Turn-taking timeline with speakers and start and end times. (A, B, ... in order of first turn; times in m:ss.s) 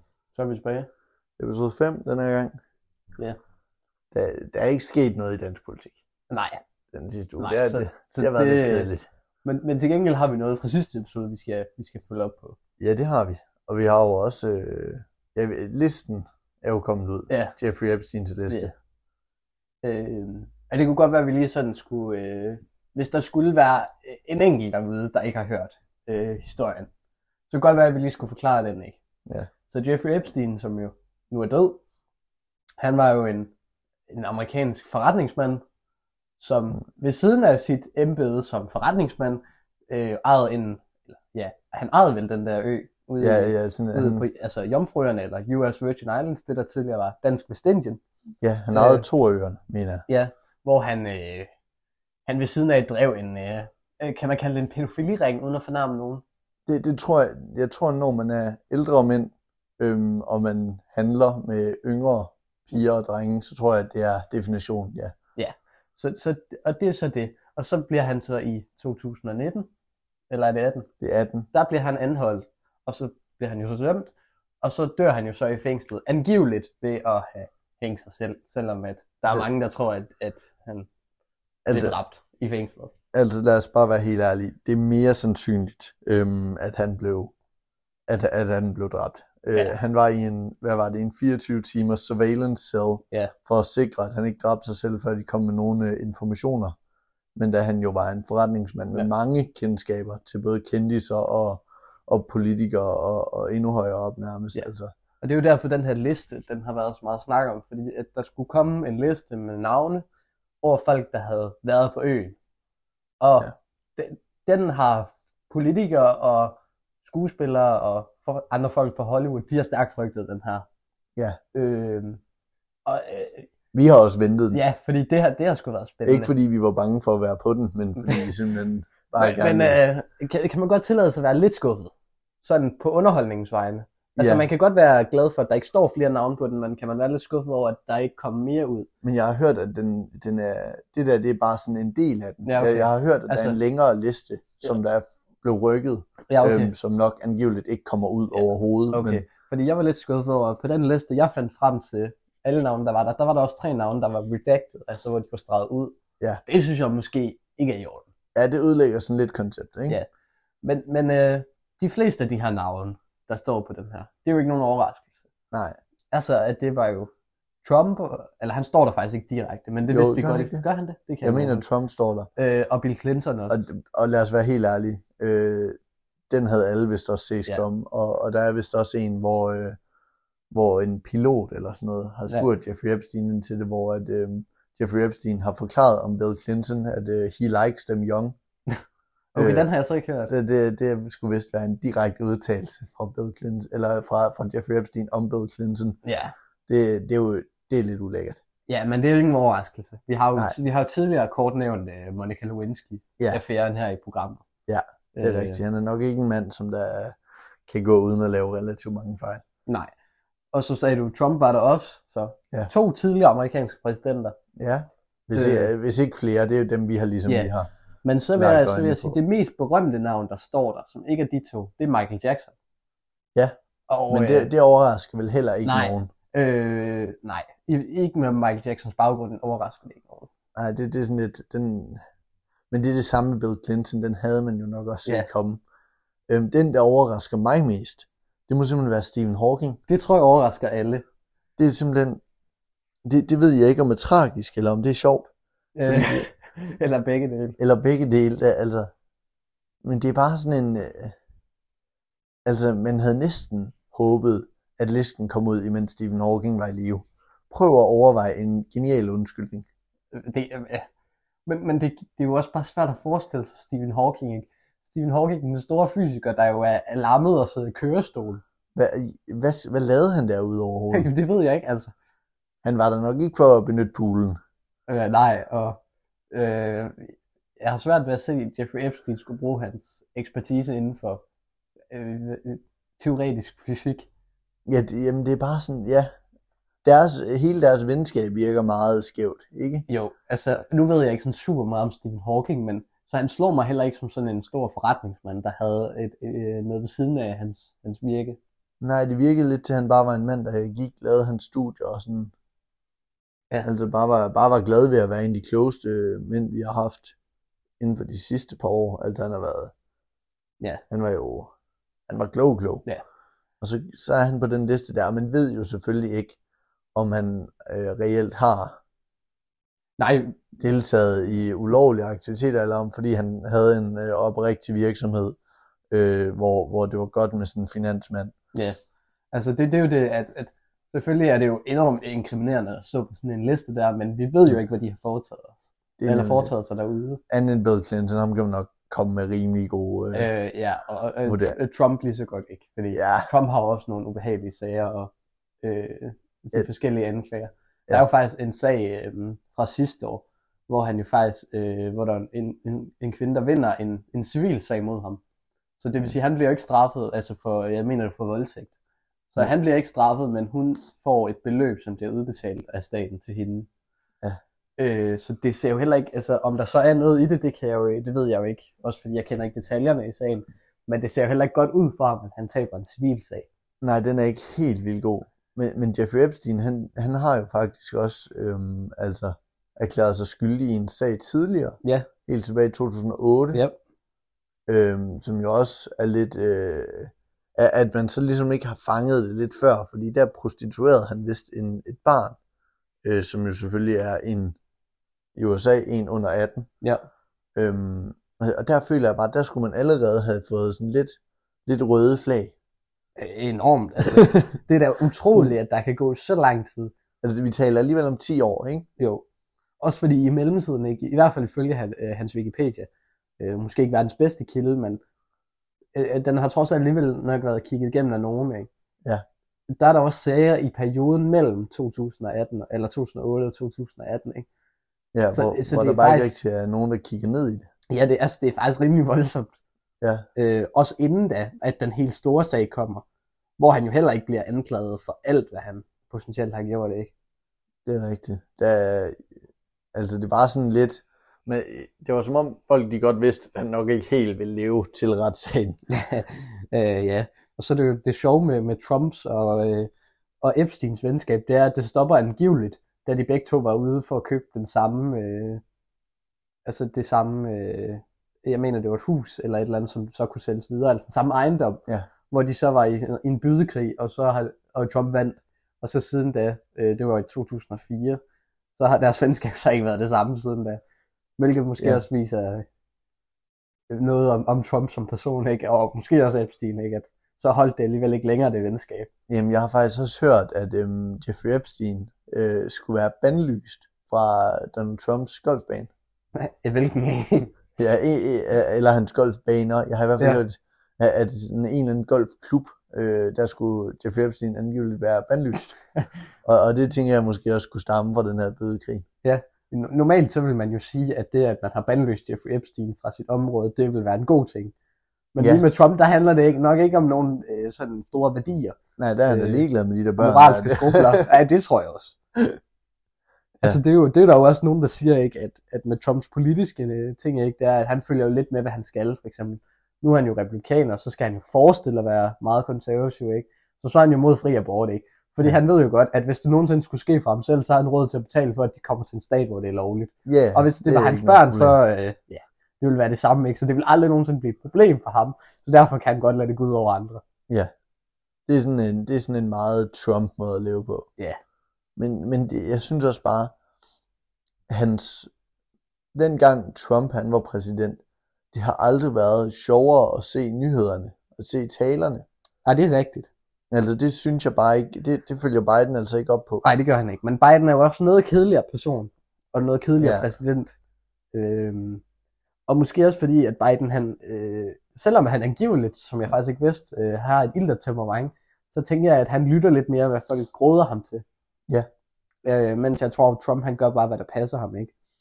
0:00.4-0:00.9 A
0:01.4-0:02.5 B
0:04.1-0:06.0 B
0:06.3-0:06.6 A
0:06.9-0:09.1 B
0:07.4-0:08.9 A
0:09.4-0:12.6 A
0:12.8-0:18.7 B
0:17.3-0:17.6 A
0:19.8-0:26.9 A
0:27.5-0:29.0 A
0:29.7-0:31.8 A
0:32.8-0:33.5 A
0:34.1-0:35.6 A
0:36.4-0:48.0 A
0:43.2-0:44.3 B
0:48.4-0:50.0 B
0:48.7-0:49.0 A
0:50.1-0:51.5 A
0:52.3-0:56.2 A
0:56.7-1:05.2 B
1:05.4-1:09.7 A
1:10.3-1:10.9 A
1:11.0-1:11.5 B
1:11.5-1:20.9 A
1:21.7-1:22.0 B
1:21.7-1:22.9 A
1:23.1-1:27.3 B
1:28.1-1:36.8 B
1:37.4-1:44.9 B
1:45.2-1:50.0 A
1:50.6-1:52.4 A
1:53.2-2:00.7 A
2:01.5-2:02.2 A
2:02.9-2:03.5 A
2:03.7-2:04.6 B
2:04.5-2:06.3 A
2:06.0-2:09.8 B
2:09.2-2:18.9 A
2:14.2-2:14.4 B
2:19.0-2:29.2 B
2:22.4-2:23.6 A
2:26.3-2:26.7 A
2:28.9-2:38.0 A
2:38.4-2:40.0 B
2:40.6-2:45.1 A
2:45.5-2:45.8 B
2:46.1-2:47.1 A
2:47.6-2:51.6 A
2:49.9-2:50.6 B
2:51.2-2:52.3 B
2:52.4-2:53.7 A
2:53.5-2:55.8 B
2:56.3-2:59.8 B
3:00.5-3:08.4 B
3:09.4-3:09.7 B
3:09.4-3:10.3 A
3:10.3-3:16.0 B
3:16.0-3:16.3 A
3:16.7-3:18.4 B
3:18.7-3:24.4 A
3:24.7-3:29.4 B
3:25.2-3:25.6 A
3:30.5-3:34.4 A
3:34.6-3:37.7 B
3:35.3-3:35.7 A
3:38.0-3:42.5 A
3:38.4-3:39.2 B
3:43.9-3:44.5 A
3:44.1-3:46.1 B
3:45.6-3:50.3 A
3:50.6-3:52.0 B
3:52.7-3:55.6 B
3:56.3-3:59.8 B
3:59.9-4:01.0 A
4:01.6-4:02.2 B
4:03.0-4:05.3 B
4:05.8-4:07.6 A
4:05.8-4:06.3 B
4:07.6-4:08.9 B
4:09.8-4:11.2 B
4:12.4-4:19.7 B
4:20.1-4:20.9 A
4:21.5-4:28.4 A
4:28.8-4:31.1 B
4:30.9-4:31.9 A
4:32.6-4:34.4 B
4:34.9-4:35.8 A
4:36.3-4:41.2 A
4:41.9-4:44.1 A
4:44.7-4:46.1 B
4:46.8-4:49.9 B
4:49.9-4:58.4 A
4:58.8-5:02.3 B
5:03.6-5:07.2 B
5:07.8-5:09.7 B
5:10.9-5:11.5 B
5:12.1-5:12.8 B
5:13.6-5:16.4 B
5:17.0-5:18.8 B
5:20.0-5:20.4 A
5:20.6-5:25.4 B
5:25.9-5:28.4 B
5:29.3-5:37.2 A
5:36.0-5:36.5 B
5:37.3-5:40.3 B
5:40.1-5:45.1 A
5:41.3-5:41.6 B
5:42.9-5:43.3 B
5:45.6-5:55.2 A
5:55.8-5:58.7 A
5:59.3-6:03.7 A
6:04.8-6:13.5 A
6:13.8-6:23.6 B
6:21.8-6:22.1 A
6:23.5-6:23.8 A
6:24.7-6:32.4 B
6:33.0-6:34.6 B
6:35.4-6:36.7 B
6:37.6-6:42.5 B
6:43.2-6:46.9 A
6:47.2-6:48.9 B
6:49.0-6:49.2 A
6:49.8-6:52.9 A
6:53.4-6:55.0 A
6:55.9-6:58.7 A
6:59.7-7:04.5 A
7:05.1-7:07.7 B
7:05.3-7:06.4 A
7:07.9-7:09.6 A
7:10.0-7:10.3 B
7:10.4-7:13.0 A
7:13.6-7:17.1 A
7:17.9-7:19.2 B
7:19.9-7:25.8 B
7:25.9-7:29.9 A
7:30.4-7:35.6 A
7:36.7-7:48.2 A
7:48.8-7:50.8 A
7:51.4-7:52.6 A
7:53.9-7:59.1 A
7:59.3-8:05.9 B
8:06.4-8:07.6 A
8:07.8-8:15.8 B
8:16.4-8:19.0 B
8:19.2-8:24.7 A
8:25.3-8:28.8 A
8:29.0-8:31.2 B
8:29.3-8:29.6 A
8:30.2-8:32.2 A
8:33.6-8:57.2 A
8:50.3-8:51.8 B
8:58.5-9:01.1 B
9:02.0-9:03.5 B
9:04.7-9:05.3 B
9:06.1-9:08.0 B
9:08.5-9:12.2 B
9:12.6-9:13.3 A
9:13.7-9:16.6 B
9:16.6-9:20.8 A
9:20.0-9:20.3 B
9:21.3-9:22.0 A
9:22.7-9:31.2 A
9:32.4-9:34.9 A